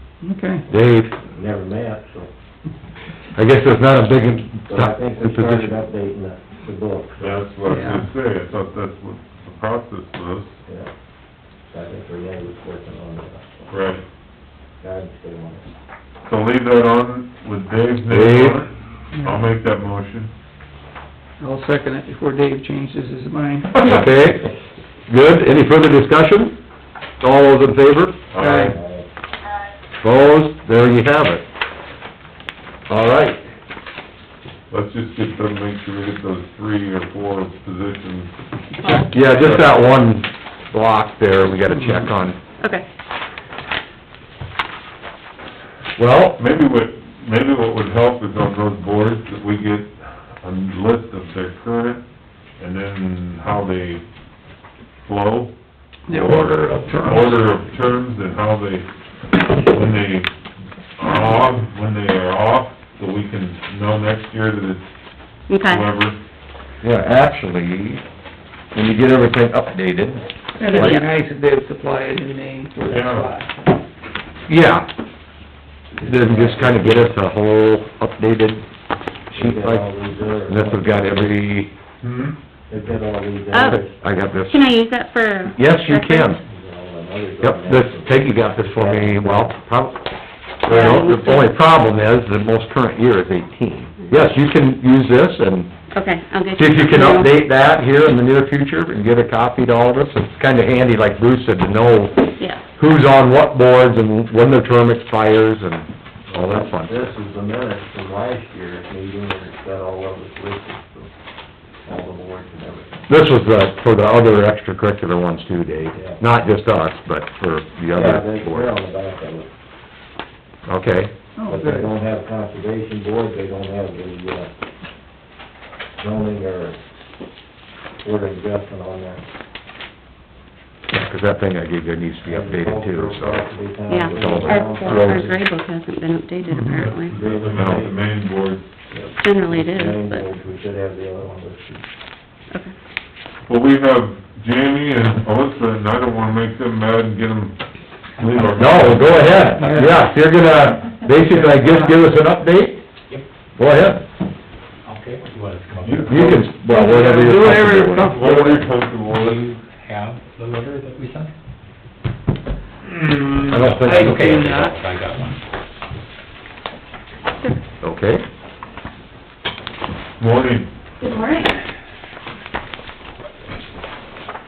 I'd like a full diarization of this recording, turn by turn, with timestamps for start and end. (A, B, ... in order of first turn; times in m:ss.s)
0:00.2-0:00.6 A
0:00.7-0:01.1 B
0:01.2-0:02.3 C
0:03.4-0:05.8 B
0:04.7-0:07.5 C
0:07.2-0:10.6 D
0:07.7-0:08.0 A
0:11.7-0:13.4 C
0:13.7-0:14.0 D
0:14.8-0:15.7 C
0:16.2-0:20.3 D
0:18.1-0:18.6 B
0:19.1-0:19.4 A
0:21.4-0:23.9 A
0:23.8-0:24.5 B
0:25.1-0:26.6 B
0:27.2-0:28.2 B
0:28.3-0:28.8 D
0:28.4-0:28.8 A
0:28.6-0:29.1 C
0:30.0-0:31.4 B
0:32.9-0:33.5 B
0:34.7-0:38.3 D
0:38.8-0:39.2 E
0:39.1-0:42.4 B
0:39.2-0:39.8 D
0:41.7-0:42.1 A
0:42.6-0:42.9 E
0:46.0-0:46.4 B
0:46.4-0:52.0 D
0:52.6-0:54.0 D
0:55.0-0:55.5 D
0:56.1-0:57.3 A
0:56.1-0:58.9 D
0:59.6-1:00.3 D
1:01.0-1:04.8 D
1:05.5-1:05.9 E
1:05.6-1:06.2 D
1:06.8-1:08.0 B
1:08.7-1:11.0 B
1:10.6-1:13.7 A
1:10.7-1:11.1 E
1:12.8-1:13.3 D
1:14.5-1:14.9 B
1:16.0-1:18.6 B
1:16.0-1:17.1 C
1:19.3-1:19.9 B
1:19.3-1:21.4 C
1:20.4-1:21.7 B
1:22.0-1:22.4 D
1:22.7-1:24.0 C
1:23.5-1:23.8 E
1:23.7-1:24.7 B
1:24.5-1:26.4 E
1:25.6-1:26.4 B
1:26.4-1:29.6 C
1:27.4-1:30.0 B
1:30.6-1:35.7 B
1:30.7-1:31.5 E
1:35.9-1:37.3 E
1:36.5-1:47.1 B
1:46.4-1:51.1 C
1:51.8-1:53.0 C
1:53.1-1:58.7 B
1:56.0-1:56.2 C
1:57.9-1:59.5 C
2:00.7-2:01.1 B
2:01.4-2:02.0 A
2:01.5-2:04.5 C
2:06.0-2:06.8 C
2:08.0-2:09.2 C
2:10.9-2:13.5 B
2:12.2-2:15.4 C
2:13.9-2:17.2 E
2:14.0-2:14.7 B
2:14.8-2:15.3 D
2:16.5-2:16.8 A
2:16.7-2:18.7 D
2:17.1-2:18.1 C
2:18.9-2:21.8 C
2:19.2-2:20.2 E
2:23.5-2:27.6 D
2:28.2-2:29.6 D
2:28.6-2:32.8 B
2:28.8-2:30.0 F
2:29.5-2:30.0 A
2:31.0-2:32.0 F
2:33.6-2:34.0 B
2:34.8-2:36.2 F
2:35.8-2:36.6 D
2:36.0-2:38.2 B
2:36.6-2:38.7 A
2:38.0-2:39.4 D
2:39.1-2:41.3 F
2:42.9-2:45.4 F
2:43.5-2:44.4 B
2:43.8-2:44.8 A
2:47.8-2:48.2 B
2:50.2-2:50.7 D
2:51.0-2:51.5 E